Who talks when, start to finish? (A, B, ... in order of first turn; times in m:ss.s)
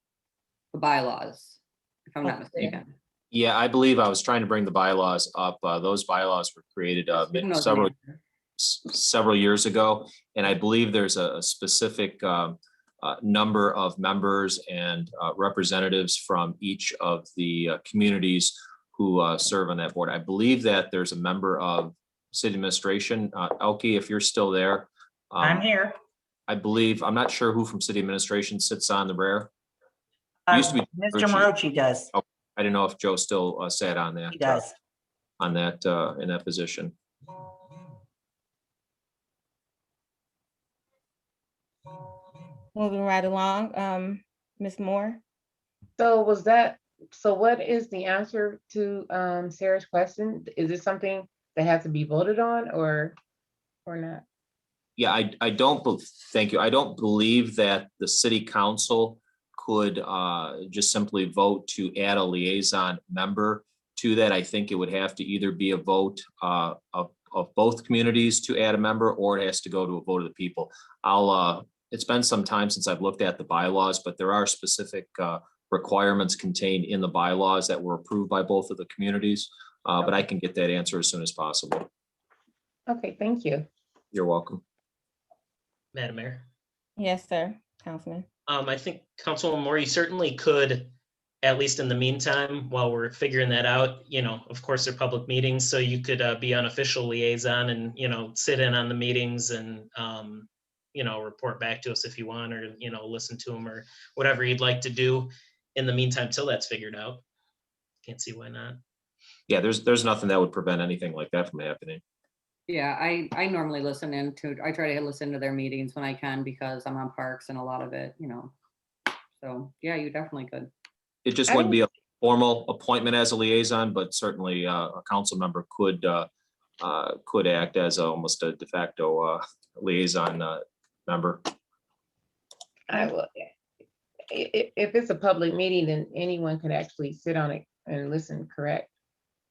0:00.7-0:02.9 A
0:03.3-0:07.9 B
0:07.1-0:08.2 A
0:08.6-0:25.7 B
0:25.4-0:26.0 C
0:26.5-0:29.5 B
0:30.5-0:32.1 C
0:30.5-0:31.6 B
0:32.1-0:34.7 B
0:34.3-0:34.7 C
0:35.4-0:36.9 B
0:42.7-0:45.2 D
0:46.0-0:53.2 E
0:53.8-0:54.2 E
0:55.0-1:21.9 B
1:22.9-1:23.6 E
1:24.1-1:24.6 B
1:25.9-1:26.4 F
1:27.0-1:28.2 D
1:28.5-1:30.9 F
1:31.4-1:47.2 F
1:48.0-1:48.8 F
1:49.5-1:52.0 B
1:52.7-1:58.5 A
1:59.4-2:00.7 A
2:01.2-2:06.3 B
2:01.5-2:01.8 E
2:06.8-2:11.4 B
2:12.9-2:13.5 E
2:14.3-2:18.9 E